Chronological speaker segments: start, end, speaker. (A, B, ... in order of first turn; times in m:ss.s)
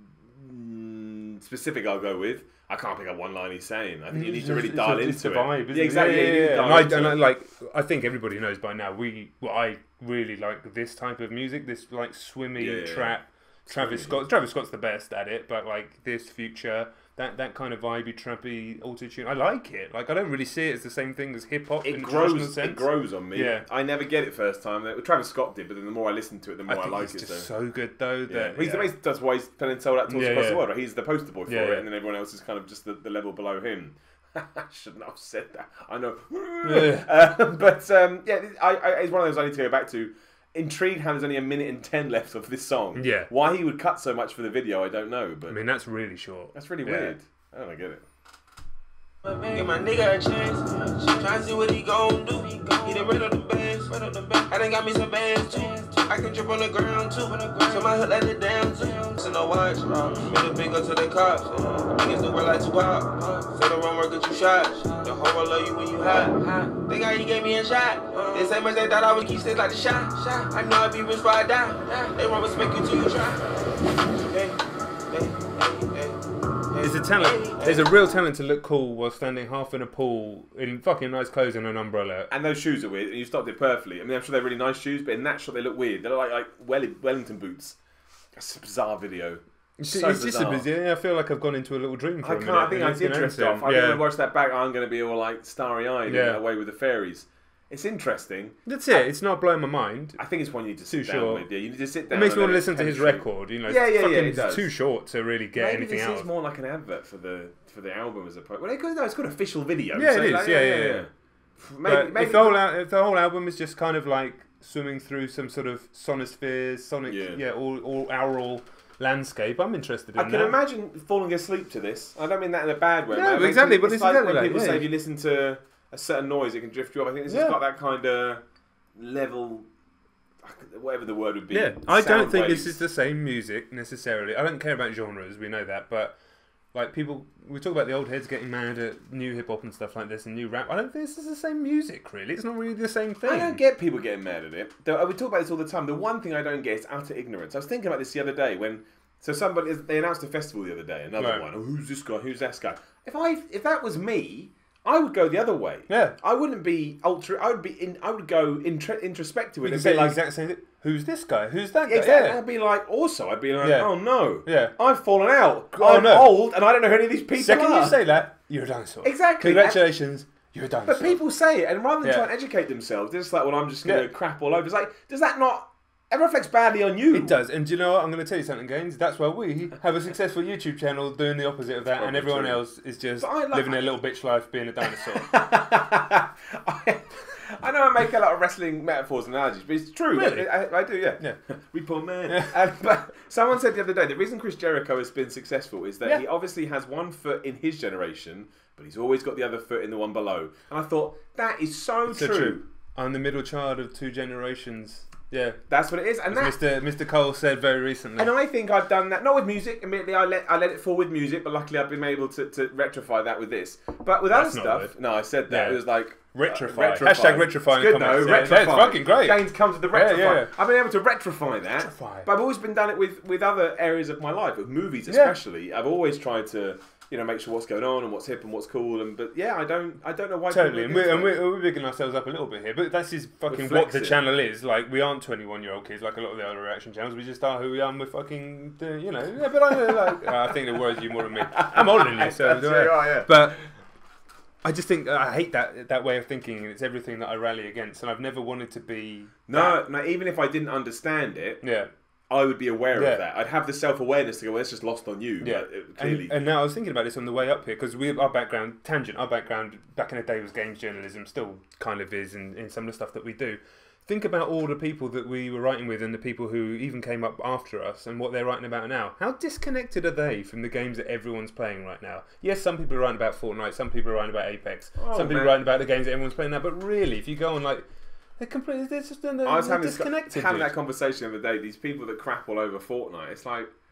0:00.2-0:07.2 A
0:04.1-0:23.6 B
0:12.6-0:13.1 A
0:13.7-0:14.2 A
0:21.8-0:27.5 A
0:26.7-0:28.9 B
0:28.3-0:45.6 A
0:30.1-0:30.6 B
0:31.5-0:31.8 B
0:36.6-0:37.1 B
0:42.9-0:43.3 B
0:45.5-0:47.1 B
0:46.5-0:48.0 A
0:49.2-1:13.5 C
1:14.0-1:17.9 C
1:16.8-1:22.3 B
1:22.3-1:27.8 A
1:28.4-1:30.7 A
1:29.8-1:34.0 B
1:32.2-1:38.6 A
1:36.1-1:36.4 B
1:38.6-1:40.2 B
1:40.2-1:44.7 A
1:40.9-1:41.5 B
1:42.1-1:46.3 B
1:45.5-1:52.6 A
1:49.9-1:51.1 B
1:51.8-2:00.6 B
1:57.1-1:57.4 A
2:00.2-2:08.4 A
2:03.1-2:04.9 B
2:07.3-2:07.6 B
2:09.0-2:09.7 A
2:10.4-2:12.8 A
2:11.5-2:16.2 B
2:16.7-2:23.6 B
2:23.2-2:40.2 A
2:31.2-2:31.5 B
2:35.9-2:36.2 B
2:39.6-2:42.4 B
2:41.8-2:48.0 A
2:43.6-2:44.7 B
2:45.7-2:46.4 B
2:47.4-2:51.2 B
2:49.0-2:49.8 A
2:50.8-2:57.3 A
2:52.0-2:52.3 B
2:53.8-2:54.1 B
2:57.1-3:05.3 B
3:01.8-3:02.6 A
3:03.2-3:03.8 A
3:05.2-3:22.6 A
3:10.1-3:10.5 B
3:12.3-3:12.5 B
3:22.1-3:25.6 B
3:25.7-3:26.6 A
3:26.3-3:28.3 B
3:28.2-3:51.4 A
3:34.3-3:35.0 B
3:35.5-3:40.5 B
3:41.8-3:42.3 B
3:45.1-3:45.4 B
3:50.5-4:03.6 B
3:53.5-3:54.2 A
3:59.7-4:00.6 A
4:01.2-4:03.5 A
4:04.6-4:09.8 B
4:09.5-4:11.6 A
4:11.6-4:11.9 B
4:12.3-4:16.4 A
4:12.9-4:13.2 B
4:15.4-4:37.8 B
4:35.0-4:35.6 A
4:38.4-4:40.7 B
4:39.4-4:43.7 A